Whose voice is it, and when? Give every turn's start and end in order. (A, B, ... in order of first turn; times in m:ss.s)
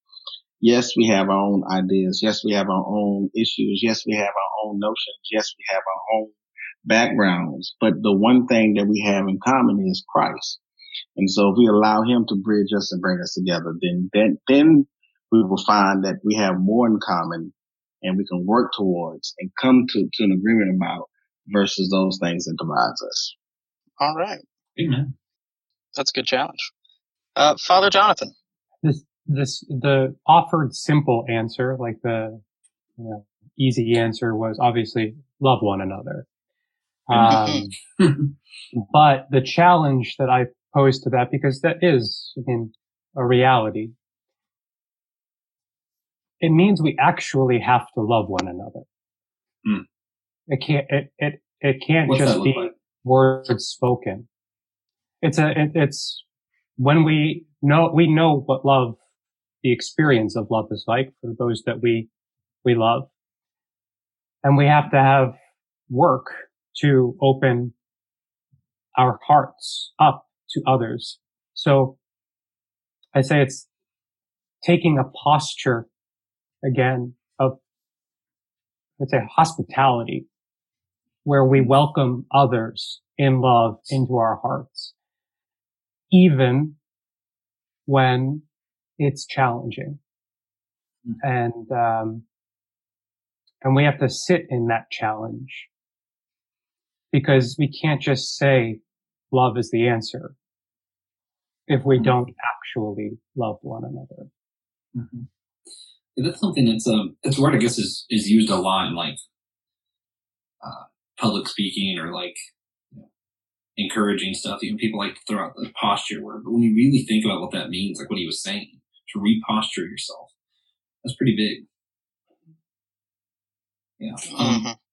0:00.6-0:10.6 A
0:11.2-0:23.3 A
0:24.0-0:24.4 B
0:24.8-0:25.1 C
0:26.0-0:26.7 B
0:27.4-0:28.3 B
0:28.8-0:32.4 D
0:33.0-0:36.2 D
0:37.1-0:37.7 D
0:37.2-0:37.6 B
0:38.0-0:38.3 C
0:38.8-0:43.9 D
0:46.4-0:48.8 D
0:50.5-0:54.3 D
0:52.1-0:52.7 C
0:55.2-0:56.2 D
0:56.8-0:59.0 D
0:59.6-1:02.1 D
1:02.6-1:03.1 D
1:04.4-1:05.4 D
1:05.9-1:07.7 D
1:09.0-1:12.0 D
1:13.1-1:13.7 D
1:14.6-1:15.9 D
1:16.6-1:17.6 D
1:19.0-1:20.3 D
1:21.2-1:24.9 D
1:26.1-1:26.8 D
1:27.9-1:28.4 D
1:29.0-1:30.0 D
1:31.2-1:32.2 D
1:33.6-1:35.7 D
1:37.1-1:40.3 D
1:41.7-1:44.3 D
1:44.9-1:45.3 C
1:46.2-1:49.2 C
1:50.6-1:52.4 C
1:53.8-2:00.3 C
2:01.0-2:01.6 C
2:04.0-2:04.6 C
2:04.3-2:04.7 B